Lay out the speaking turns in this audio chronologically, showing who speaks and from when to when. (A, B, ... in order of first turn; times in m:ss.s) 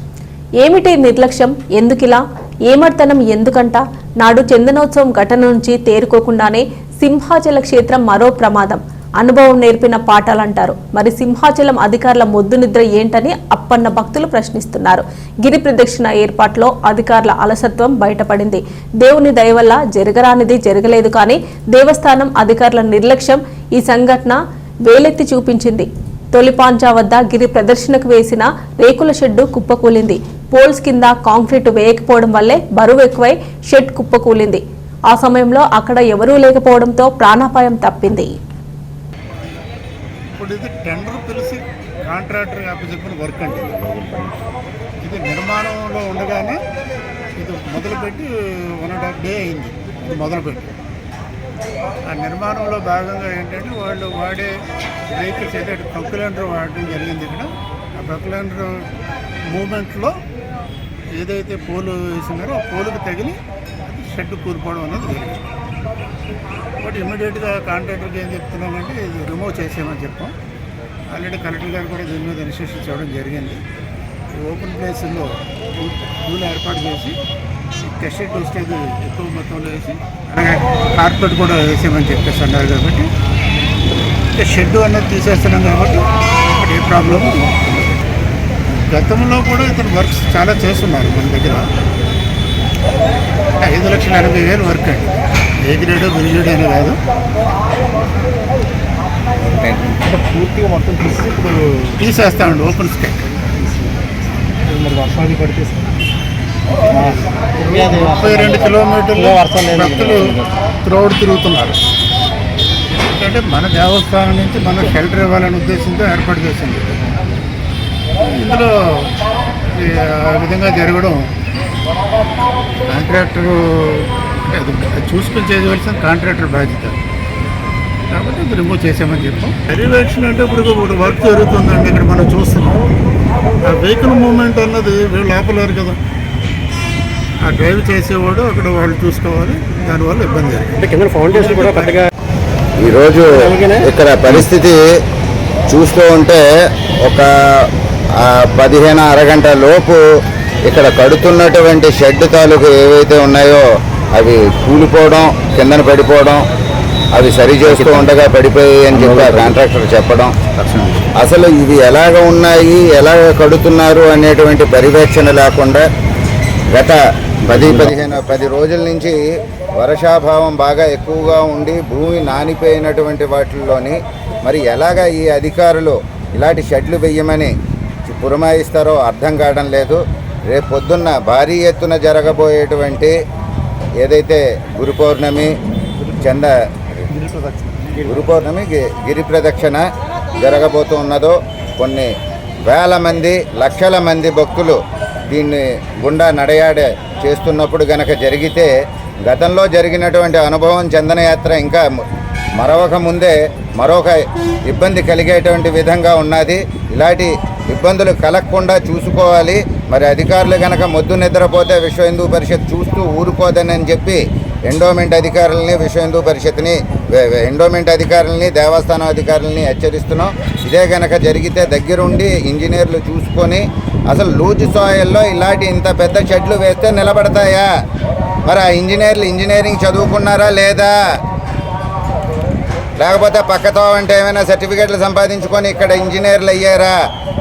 0:00.6-0:38.3 A
0:40.3-0:44.4 B
0:45.0-0:46.6 B
0:47.4-0:50.7 B
0:52.1-0:54.6 B
0:55.1-0:58.9 B
0:59.5-1:00.2 B
1:01.1-1:05.5 B
1:06.8-1:10.4 B
1:11.1-1:13.6 B
1:14.3-1:17.2 B
1:17.8-1:23.1 B
1:24.4-1:27.6 B
1:28.7-1:31.7 B
1:33.6-1:37.0 B
1:39.5-1:40.3 C
1:41.0-1:41.8 C
1:41.9-1:43.2 B
1:44.8-1:45.8 C
1:47.5-1:51.8 B
1:53.1-1:56.9 B
1:58.2-1:59.1 B
1:59.7-2:01.3 B
2:02.9-2:07.0 B
2:08.1-2:12.8 B
2:13.6-2:16.0 B
2:17.4-2:22.1 B
2:22.8-2:24.9 D
2:25.7-2:30.0 D
2:30.7-2:33.6 D
2:34.2-2:36.4 D
2:37.1-2:40.3 D
2:37.6-2:38.1 C
2:38.9-2:39.6 C
2:40.6-2:41.1 C
2:41.2-2:45.8 D
2:46.7-2:49.2 D
2:47.5-2:47.9 C
2:49.7-2:57.5 D
2:58.1-3:03.2 D
3:04.0-3:05.5 D
3:06.1-3:06.6 D
3:08.0-3:09.8 D
3:10.4-3:12.1 D
3:12.7-3:18.7 D
3:19.3-3:21.9 D
3:22.6-3:47.7 D
3:48.5-3:50.9 D
3:53.0-3:56.9 D